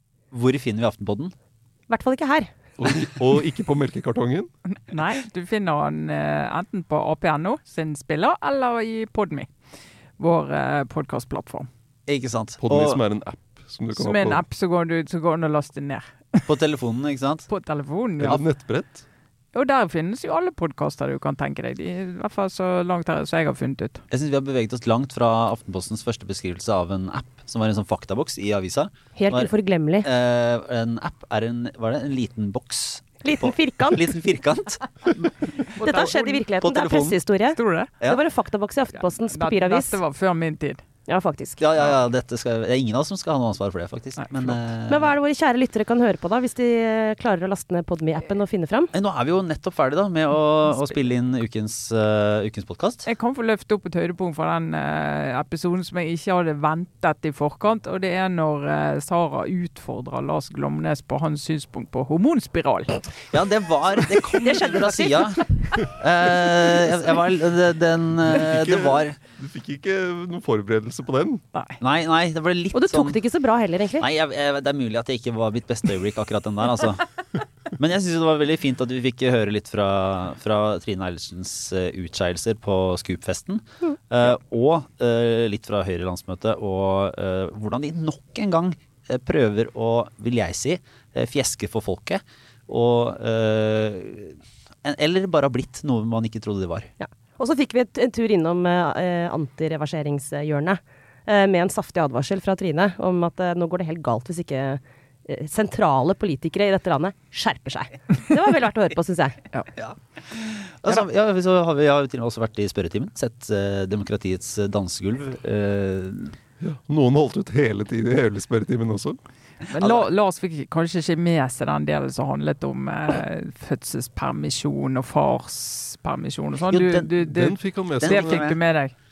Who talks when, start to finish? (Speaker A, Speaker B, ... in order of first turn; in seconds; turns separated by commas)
Speaker A: 0.3-1.3, Speaker B: 1.9-2.5, Speaker C: 2.8-4.5, Speaker D: 4.7-9.5, Speaker D: 10.2-11.7, Speaker A: 12.1-13.0, Speaker C: 12.6-14.4, Speaker D: 13.9-16.5, Speaker A: 16.5-17.5, Speaker D: 17.5-18.4, Speaker C: 18.2-19.0, Speaker D: 19.5-24.0, Speaker A: 24.1-29.5, Speaker B: 29.1-30.1, Speaker A: 30.0-34.8, Speaker B: 33.2-34.0, Speaker D: 35.6-36.4, Speaker B: 35.8-40.0, Speaker A: 36.6-37.2, Speaker D: 37.5-37.9, Speaker D: 38.9-40.8, Speaker B: 41.1-41.6, Speaker A: 41.6-45.1, Speaker D: 44.2-44.6, Speaker B: 44.9-48.9, Speaker A: 48.9-53.0, Speaker D: 53.0-63.0, Speaker A: 63.3-69.2, Speaker B: 64.7-65.0, Speaker C: 68.3-71.4, Speaker D: 71.5-71.8, Speaker A: 71.8-73.2, Speaker B: 72.7-74.1, Speaker A: 74.0-77.1, Speaker A: 77.7-96.9, Speaker B: 97.0-109.4, Speaker A: 109.8-116.3, Speaker C: 116.6-119.2, Speaker D: 119.7-128.9, Speaker A: 119.8-120.0, Speaker A: 126.7-127.4, Speaker C: 127.2-128.4, Speaker A: 128.0-128.6